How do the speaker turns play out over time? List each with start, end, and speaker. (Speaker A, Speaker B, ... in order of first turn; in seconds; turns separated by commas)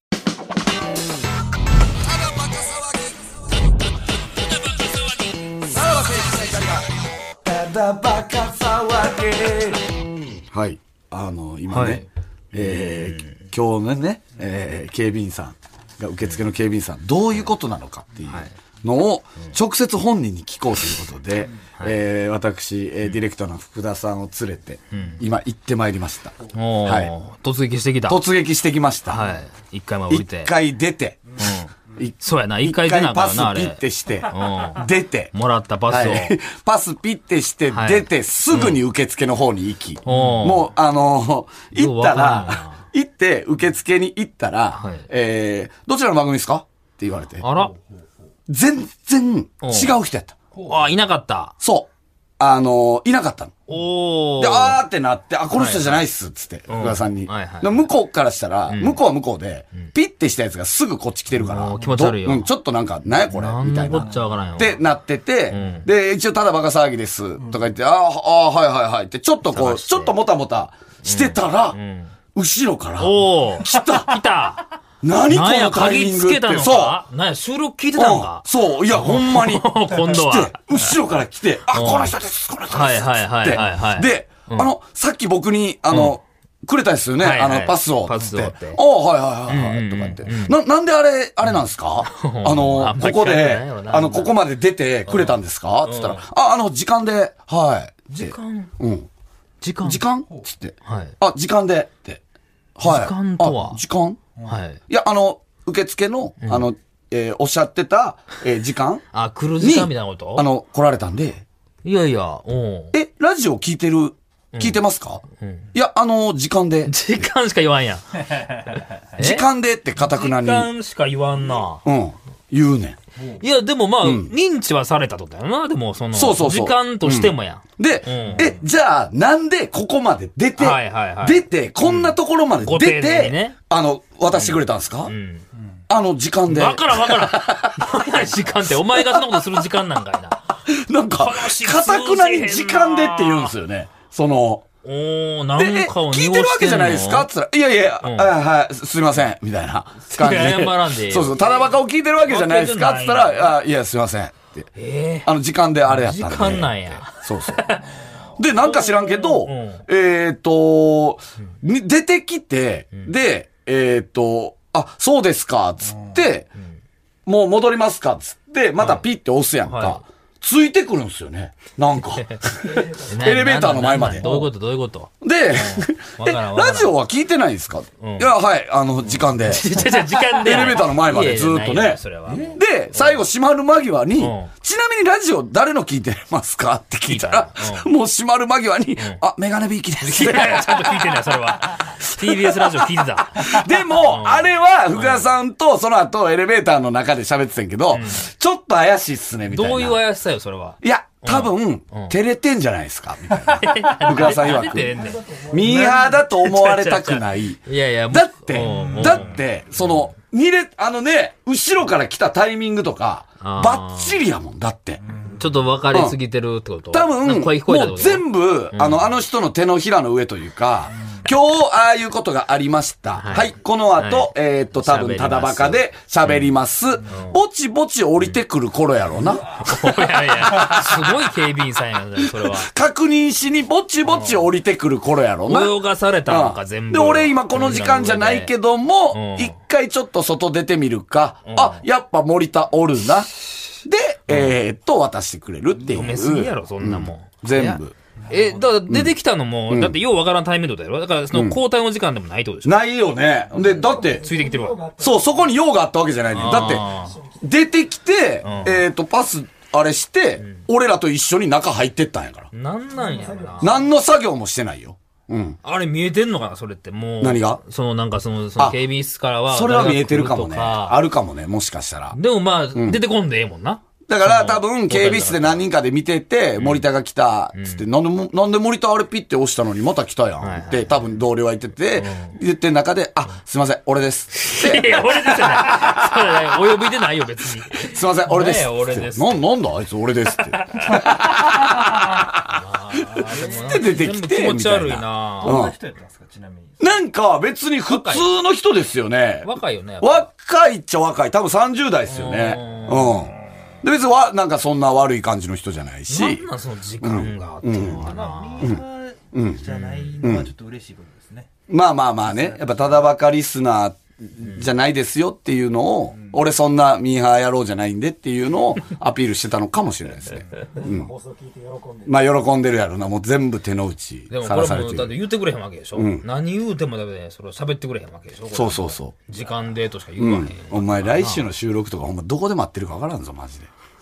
Speaker A: 2.1-3.3, Speaker A: 5.7-6.9, Speaker A: 7.4-27.1, Speaker B: 11.7-12.1, Speaker B: 12.6-13.3, Speaker B: 24.9-25.2, Speaker B: 26.5-28.2, Speaker A: 28.1-29.3, Speaker B: 29.1-30.5, Speaker A: 30.1-31.4, Speaker B: 31.4-31.7, Speaker A: 32.0-35.3, Speaker B: 32.2-36.4, Speaker A: 35.9-47.5, Speaker B: 37.7-38.8, Speaker B: 40.1-40.7, Speaker B: 41.8-42.8, Speaker B: 44.8-45.1, Speaker B: 47.4-47.8, Speaker A: 48.5-50.4, Speaker B: 49.6-49.9, Speaker B: 50.6-51.5, Speaker A: 51.6-53.5, Speaker B: 53.7-54.8, Speaker A: 54.4-71.8, Speaker B: 55.6-55.9, Speaker B: 56.7-57.8, Speaker B: 58.7-59.0, Speaker B: 61.3-62.5, Speaker B: 63.2-64.8, Speaker C: 63.9-64.2, Speaker B: 65.5-65.9, Speaker B: 69.5-70.2, Speaker B: 71.0-72.1, Speaker A: 72.3-74.2, Speaker B: 73.0-74.7, Speaker A: 75.0-77.0, Speaker B: 75.3-81.0, Speaker A: 78.0-99.1, Speaker B: 81.7-82.2, Speaker B: 82.7-84.7, Speaker B: 85.9-86.2, Speaker B: 87.2-88.8, Speaker B: 89.5-90.6, Speaker B: 91.5-94.3, Speaker B: 95.1-96.2, Speaker B: 98.1-98.7, Speaker B: 99.6-100.0, Speaker A: 99.8-102.2, Speaker B: 100.9-101.1, Speaker A: 102.8-104.2, Speaker B: 102.8-103.8, Speaker B: 104.5-104.8, Speaker A: 104.9-109.0, Speaker B: 109.1-110.5, Speaker A: 109.6-111.4, Speaker B: 111.8-113.0, Speaker A: 112.9-115.2, Speaker B: 114.5-114.8, Speaker B: 115.4-115.7, Speaker A: 115.7-117.2, Speaker B: 116.9-119.5, Speaker A: 119.2-120.7, Speaker B: 120.0-121.8, Speaker A: 121.8-123.0, Speaker B: 123.4-128.5, Speaker A: 124.0-124.3, Speaker A: 126.1-135.1, Speaker B: 130.6-133.6, Speaker B: 134.3-135.4, Speaker A: 135.9-139.6, Speaker B: 136.5-140.6, Speaker A: 140.7-144.7, Speaker B: 141.2-143.5, Speaker B: 144.8-147.3, Speaker A: 145.6-154.7, Speaker B: 148.0-148.3, Speaker B: 150.1-151.7, Speaker B: 152.3-153.5, Speaker B: 154.8-155.3, Speaker A: 155.2-157.8, Speaker B: 155.9-157.9, Speaker A: 158.4-166.5, Speaker B: 158.6-159.8, Speaker A: 167.3-174.5, Speaker B: 168.8-169.1, Speaker B: 169.7-170.0, Speaker B: 172.2-176.9, Speaker A: 175.2-191.2, Speaker B: 178.0-178.3, Speaker B: 179.1-183.2, Speaker B: 184.2-184.5, Speaker B: 187.0-187.9, Speaker B: 190.0-195.3, Speaker A: 191.8-200.0, Speaker B: 197.9-198.3, Speaker B: 199.5-202.2, Speaker A: 200.8-215.0, Speaker B: 203.5-209.9, Speaker D: 204.9-206.0, Speaker C: 208.6-209.3, Speaker B: 213.4-214.2, Speaker C: 215.1-215.4, Speaker B: 215.3-219.1, Speaker A: 215.9-216.2, Speaker A: 216.9-231.2, Speaker B: 223.2-226.5, Speaker B: 227.1-227.4, Speaker B: 229.6-232.7, Speaker A: 232.2-247.9, Speaker B: 234.1-234.4, Speaker B: 235.5-238.5, Speaker B: 239.1-239.6, Speaker B: 241.4-241.8, Speaker B: 244.3-244.6, Speaker B: 245.9-252.7, Speaker C: 248.3-248.7, Speaker A: 248.9-249.1, Speaker A: 249.7-250.0, Speaker A: 251.3-251.6, Speaker A: 252.6-254.2, Speaker B: 253.6-254.8, Speaker D: 253.6-255.6, Speaker A: 255.0-262.5, Speaker B: 256.3-257.2, Speaker D: 256.8-257.4, Speaker B: 258.4-258.8, Speaker B: 262.5-263.8, Speaker D: 263.0-263.9, Speaker A: 263.6-265.6, Speaker B: 265.6-271.0, Speaker A: 267.2-267.6, Speaker A: 269.5-272.2, Speaker B: 272.1-275.7, Speaker A: 272.7-273.0, Speaker A: 274.1-286.4, Speaker B: 276.6-276.9, Speaker B: 277.6-277.8, Speaker B: 280.4-280.9, Speaker B: 282.0-282.4, Speaker B: 284.4-289.4, Speaker A: 287.8-292.6, Speaker B: 290.4-295.6, Speaker A: 293.1-295.8, Speaker C: 293.3-293.8, Speaker C: 295.4-297.0, Speaker A: 296.8-306.4, Speaker B: 297.9-298.3, Speaker B: 299.4-300.3, Speaker B: 302.1-303.3, Speaker B: 306.1-308.8, Speaker A: 307.0-308.1, Speaker C: 307.9-311.5, Speaker A: 309.3-309.7, Speaker B: 309.7-310.1, Speaker A: 310.2-310.5, Speaker A: 311.7-321.1, Speaker C: 312.2-313.1, Speaker C: 316.1-316.4, Speaker C: 320.3-320.8, Speaker D: 320.8-322.2, Speaker A: 322.1-325.2, Speaker B: 324.3-331.4, Speaker A: 325.9-326.3, Speaker A: 328.5-329.1, Speaker A: 330.2-333.7